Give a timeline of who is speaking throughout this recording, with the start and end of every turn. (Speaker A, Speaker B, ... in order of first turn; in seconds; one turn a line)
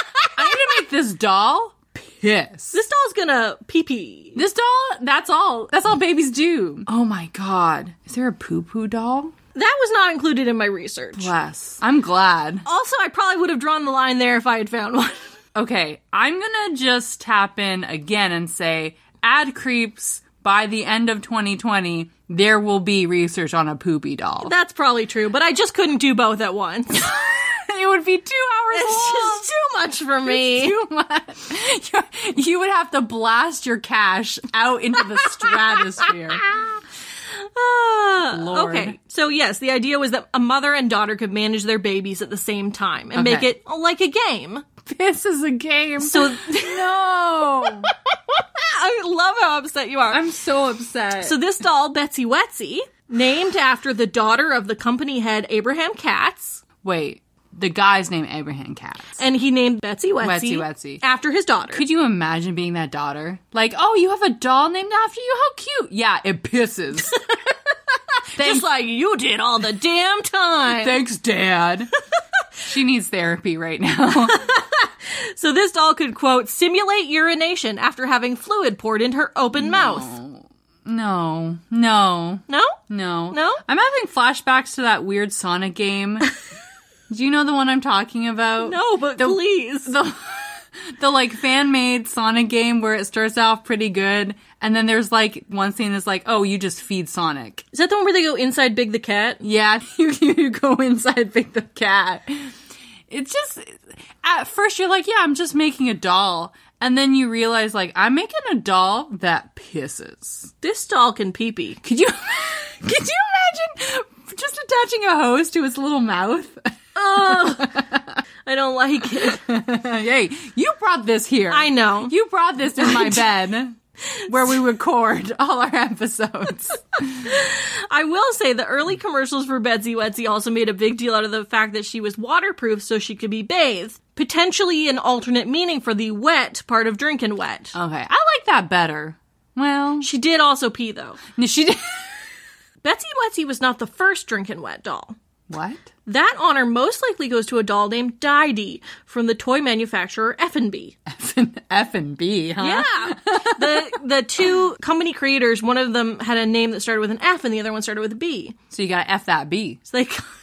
Speaker A: 0.3-2.8
Speaker B: 2.7-4.4
Speaker A: 4.3-9.3
Speaker B: 9.6-11.3
Speaker A: 11.2-12.7
Speaker B: 12.7-15.3
Speaker A: 15.6-24.5
Speaker B: 24.4-27.1
Speaker A: 26.9-29.5
Speaker B: 28.7-30.8
Speaker A: 30.2-36.5
Speaker B: 37.4-44.6
Speaker A: 38.3-39.0
Speaker A: 43.1-43.5
Speaker A: 44.9-47.9
Speaker B: 46.0-46.8
Speaker B: 48.6-50.2
Speaker A: 50.1-51.4
Speaker B: 51.2-56.6
Speaker A: 56.8-59.2
Speaker B: 59.2-61.8
Speaker A: 60.2-61.0
Speaker A: 61.7-67.2
Speaker A: 68.3-68.7
Speaker B: 68.4-71.0
Speaker A: 70.7-71.9
Speaker A: 72.6-74.4
Speaker B: 74.4-80.1
Speaker A: 79.6-86.3
Speaker B: 82.5-82.8
Speaker B: 83.3-83.6
Speaker A: 87.1-97.7
Speaker B: 88.6-90.0
Speaker B: 97.7-99.4
Speaker A: 99.4-102.5
Speaker A: 103.1-110.5
Speaker B: 110.6-111.8
Speaker A: 111.8-118.2
Speaker B: 117.0-117.8
Speaker B: 118.5-119.4
Speaker A: 119.2-127.3
Speaker B: 121.5-122.1
Speaker B: 122.8-123.2
Speaker B: 127.2-137.7
Speaker A: 137.7-140.1
Speaker B: 140.0-141.2
Speaker A: 141.4-142.2
Speaker B: 142.8-145.2
Speaker A: 145.5-145.9
Speaker B: 146.1-150.9
Speaker A: 151.1-154.0
Speaker B: 152.6-158.6
Speaker A: 158.7-159.8
Speaker B: 159.9-160.2